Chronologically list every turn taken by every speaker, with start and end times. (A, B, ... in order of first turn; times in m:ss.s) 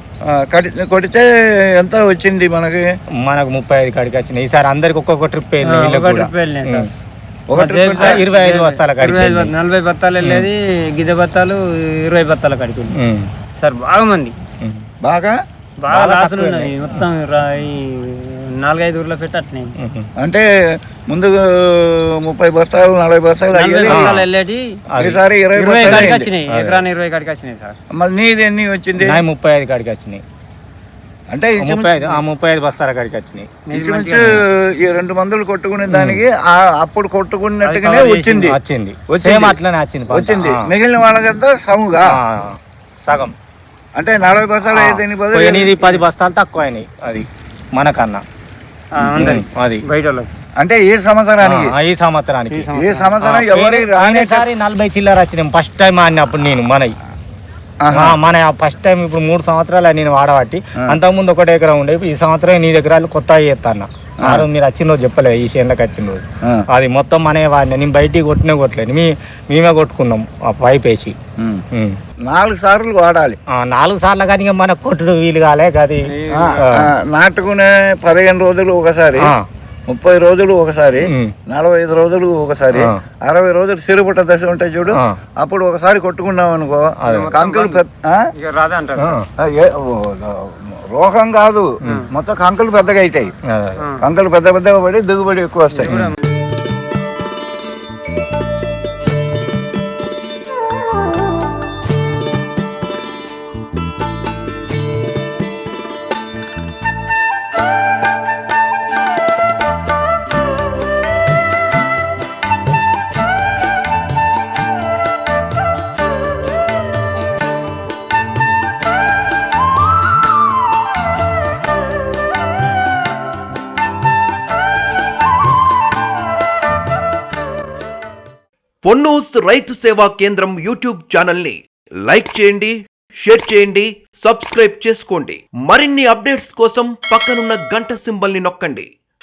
0:00.3-0:01.2 A
0:01.8-0:02.8 A
0:03.2-0:06.9 B
0:05.7-0:06.9 C
0:07.5-0:08.2 A
0:07.5-0:13.0 C
0:07.9-0:09.5 B
0:10.2-0:10.5 B
0:12.9-0:13.3 B
0:13.6-0:14.3 C
0:15.0-0:15.3 A
0:15.8-0:19.7 C
0:15.9-0:17.0 B
0:19.8-0:20.1 B
0:21.1-0:24.1 A
0:23.5-0:24.7 C
0:23.9-0:24.3 B
0:24.9-0:25.2 B
0:25.0-0:26.3 A
0:25.6-0:27.8 C
0:25.8-0:26.8 B
0:27.9-0:29.2 A
0:29.0-0:30.2 B
0:31.3-0:32.1 A
0:31.6-0:33.6 B
0:33.6-0:34.4 C
0:33.7-0:38.6 A
0:35.9-0:36.2 B
0:37.6-0:38.5 C
0:38.4-0:40.6 B
0:39.1-0:39.6 A
0:40.1-0:42.1 A
0:42.1-0:43.3 B
0:44.0-0:45.8 A
0:44.6-0:48.2 B
0:48.9-0:50.3 C
0:49.1-0:49.8 B
0:50.6-0:51.7 A
0:51.4-0:52.7 B
0:52.5-0:53.1 C
0:52.7-0:54.4 A
0:53.2-0:56.9 B
0:57.8-0:58.2 A
0:57.9-1:11.1 B
1:11.7-1:12.0 B
1:12.2-1:13.4 A
1:13.5-1:16.8 B
1:16.0-1:16.7 C
1:16.3-1:19.3 A
1:19.2-1:19.4 B
1:19.9-1:28.2 A
1:21.0-1:21.3 B
1:22.7-1:23.0 B
1:27.0-1:27.3 B
1:27.0-1:27.8 C
1:28.4-1:29.2 C
1:29.0-1:29.2 B
1:29.4-1:30.4 A
1:30.9-1:33.3 A
1:31.8-1:32.1 C
1:33.5-1:33.8 B
1:33.8-1:34.0 C
1:34.0-1:36.0 A
1:35.7-1:36.2 C
1:35.8-1:36.1 B
2:08.8-2:18.9 D